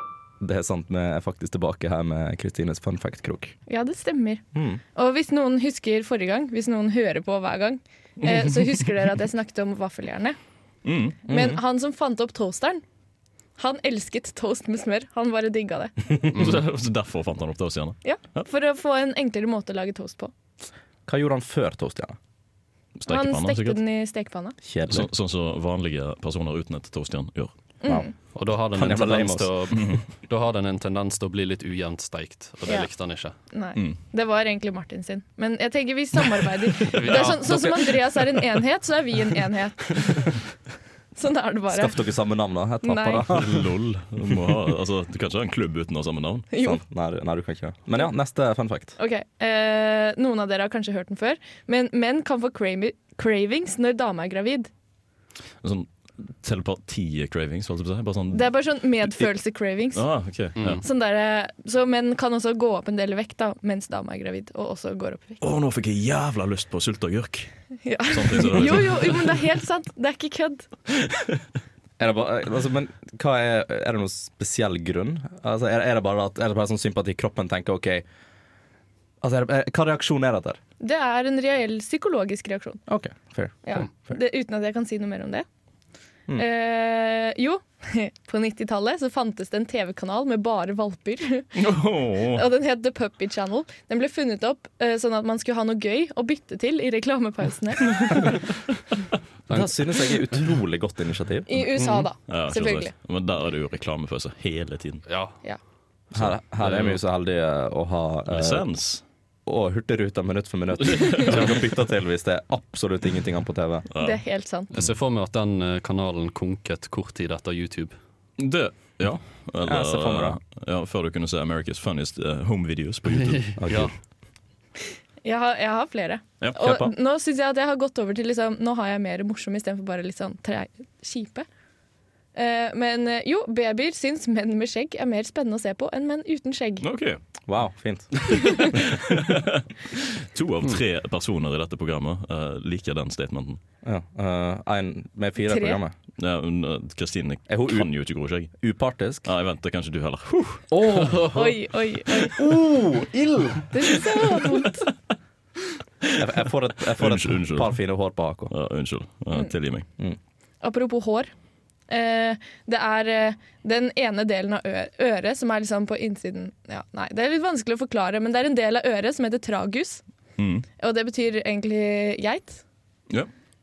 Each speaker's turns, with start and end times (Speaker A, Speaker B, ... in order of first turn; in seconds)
Speaker A: 0.4-3.5, 4.5-4.8, 11.3-11.6, 21.1-22.2, 24.6-25.1, 28.7-29.8, 37.2-37.8, 41.7-43.7, 46.6-48.9, 72.0-78.0, 79.2-80.6, 82.9-84.2, 99.5-101.7, 106.1-108.7, 109.5-113.9, 119.6-120.4, 123.6-123.9, 137.5-138.6, 143.8-145.9, 147.5-147.9, 148.6-149.3, 150.7-151.6, 152.2-153.7, 156.1-158.5
Speaker B: 3.7-4.4, 4.9-10.4, 11.2-12.8, 13.6-15.9, 18.0-20.3, 23.1-24.6, 27.8-28.1, 33.5-40.2, 41.1-42.0, 42.8-43.3, 46.5-46.8, 49.0-54.7, 58.3-60.1, 60.8-65.4, 67.8-70.7, 80.8-82.8, 83.6-85.5, 86.3-91.6, 92.2-98.0, 101.5-102.9, 114.0-114.7, 125.2-131.4, 132.3-136.8, 145.4-145.8, 151.3-152.4, 153.7-154.9, 160.6-161.3, 161.9-170.0, 170.8-172.6
Speaker C: 10.8-11.2, 16.3-18.4, 23.0-23.8, 24.9-27.5, 29.7-30.0, 43.3-46.5, 55.6-59.3, 59.9-60.8, 65.4-67.5, 68.1-69.4, 91.5-92.5, 98.0-98.4, 102.3-105.0, 106.1-106.9, 108.3-109.0, 110.8-111.6, 113.9-114.2, 118.4-123.6, 126.4-126.9, 136.8-137.2, 138.3-143.6, 146.2-148.5, 149.2-151.3, 152.2-152.4, 153.8-154.5, 156.9-157.8, 158.5-159.9, 170.4-170.7
Speaker D: 16.3-16.6, 28.3-33.3, 36.9-37.7, 60.6-60.8, 101.8-102.1, 105.1-105.3, 106.6-106.9, 114.7-117.9, 123.2-123.9